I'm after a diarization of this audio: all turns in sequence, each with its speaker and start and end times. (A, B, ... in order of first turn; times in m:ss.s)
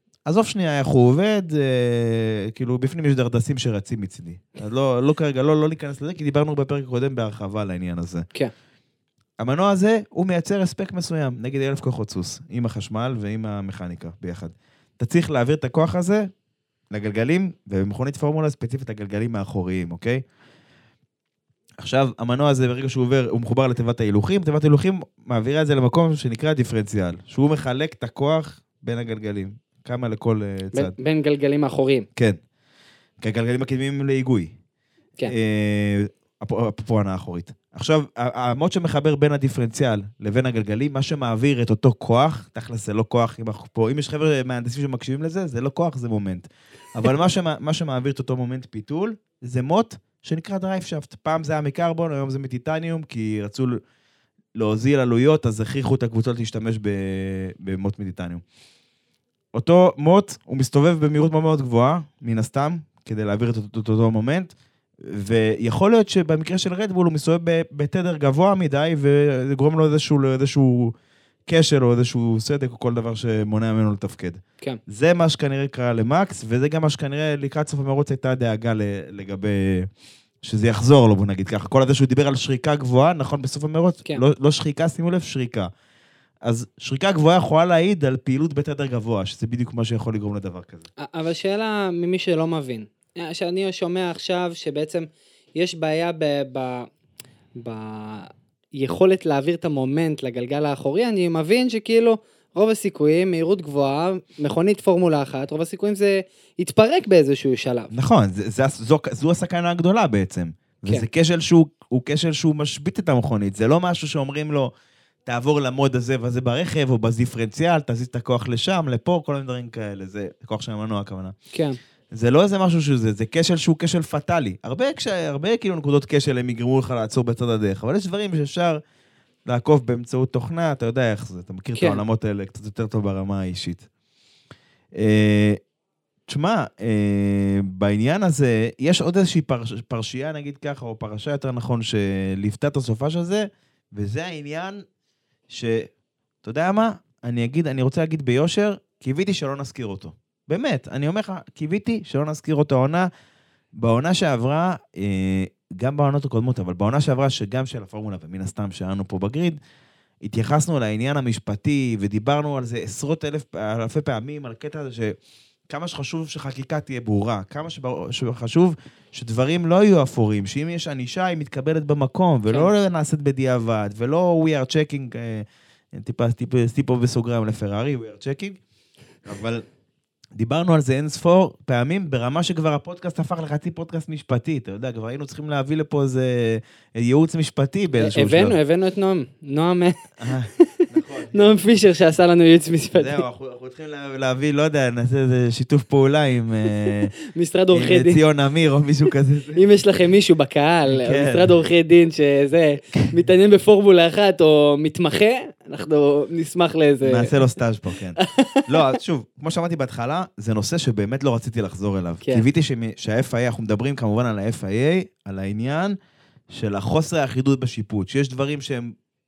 0:00.2-0:08.2 A
0:09.4-0:16.3 A
0:16.9-0:20.2 A
0:21.8-0:30.9 A
0:30.7-0:32.1 B
0:33.2-0:34.5 A
0:35.2-0:53.8 A
0:54.5-0:58.4 A
0:59.5-1:10.9 A
1:11.4-1:19.9 A
1:20.4-1:25.7 A
1:26.4-1:30.8 A
1:31.0-1:36.9 B
1:37.6-1:47.9 B
1:47.9-1:54.7 A
1:55.2-2:01.3 A
2:01.5-2:01.8 B
2:02.1-2:08.8 A
2:09.4-2:13.8 A
2:11.8-2:12.0 B
2:14.9-2:15.6 A
2:16.3-2:24.8 A
2:25.5-2:25.9 A
2:26.4-2:33.1 A
2:33.7-2:39.6 A
2:40.2-2:45.2 A
2:45.7-2:58.6 A
2:59.2-2:59.6 A
3:00.3-3:08.6 A
3:08.0-3:13.2 B
3:10.2-3:11.5 A
3:13.0-3:17.1 A
3:16.8-3:18.2 B
3:17.7-3:19.6 A
3:19.5-3:27.3 B
3:20.9-3:21.5 A
3:27.0-3:36.0 A
3:28.2-3:29.0 B
3:36.5-3:38.9 A